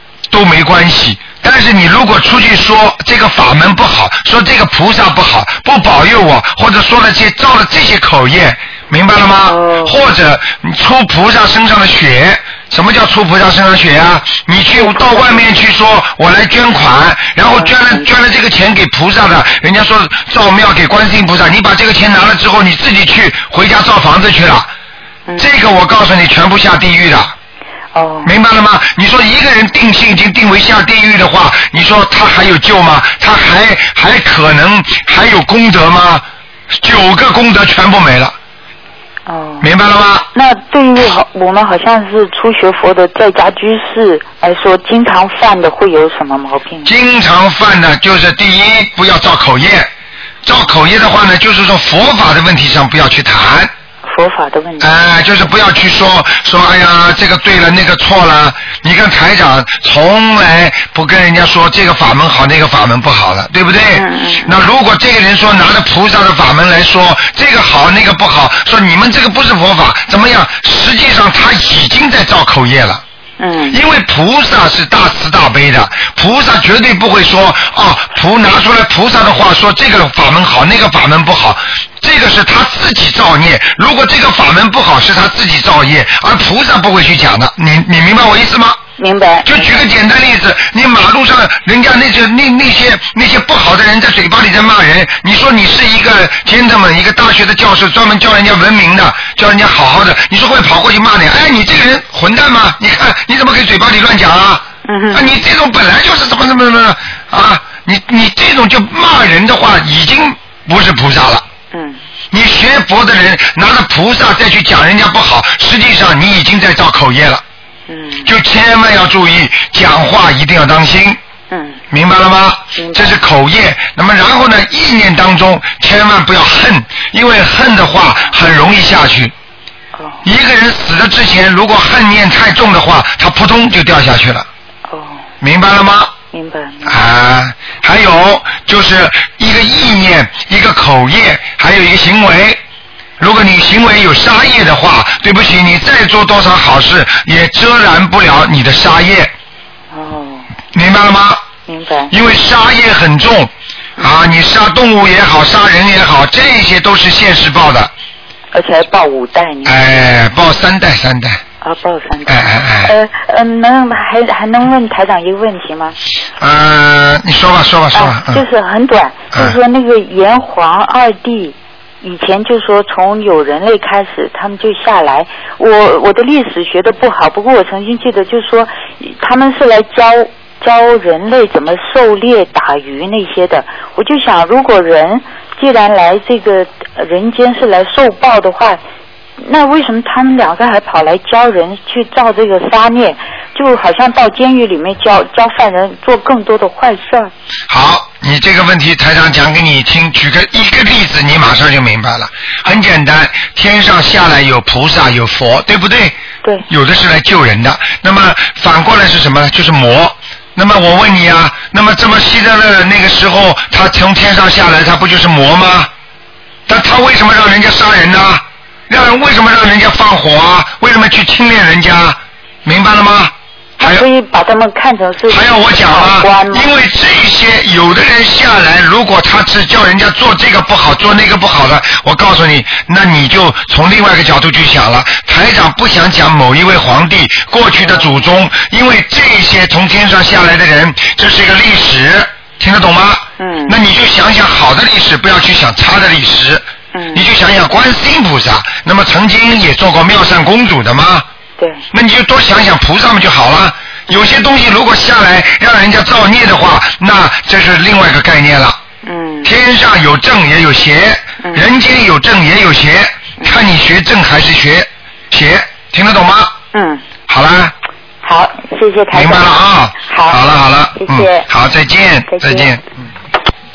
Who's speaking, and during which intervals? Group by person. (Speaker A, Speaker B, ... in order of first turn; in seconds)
Speaker A: 0.3-24.7, 25.4-27.3, 28.2-38.4, 39.6-40.3, 46.9-49.9, 50.5-53.7, 54.8-73.0, 73.7-88.8, 89.5-111.4, 112.3-117.4, 118.2-121.2, 121.9-129.3, 130.2-134.5, 135.4-136.1, 136.8-142.6, 143.2-149.3, 150.7-151.4, 152.1-157.9, 159.7-161.4, 162.3-162.9, 166.4-168.4, 197.7-206.2, 206.7-215.9, 216.7-224.1, 225.3-246.6, 247.1-251.3, 251.9-258.8, 259.4-266.6, 267.3-267.7, 269.1-272.8
Speaker B: 9.5-10.0, 14.8-15.4, 17.5-18.1, 27.9-28.3, 39.3-39.7, 40.3-46.9, 54.0-54.9, 63.9-64.5, 73.4-73.8, 89.0-89.8, 104.8-105.2, 111.7-112.0, 117.9-118.3, 121.5-121.8, 122.8-123.2, 130.0-130.2, 134.9-135.2, 136.3-137.0, 149.9-150.5, 151.7-152.1, 158.5-159.8, 161.6-166.0, 167.9-188.8, 189.4-197.3, 223.8-226.7, 243.4-243.8, 246.9-247.2, 251.6-251.8, 259.0-259.5, 266.7-267.0, 268.2-269.6, 270.1-270.4, 270.9-271.5, 272.3-272.7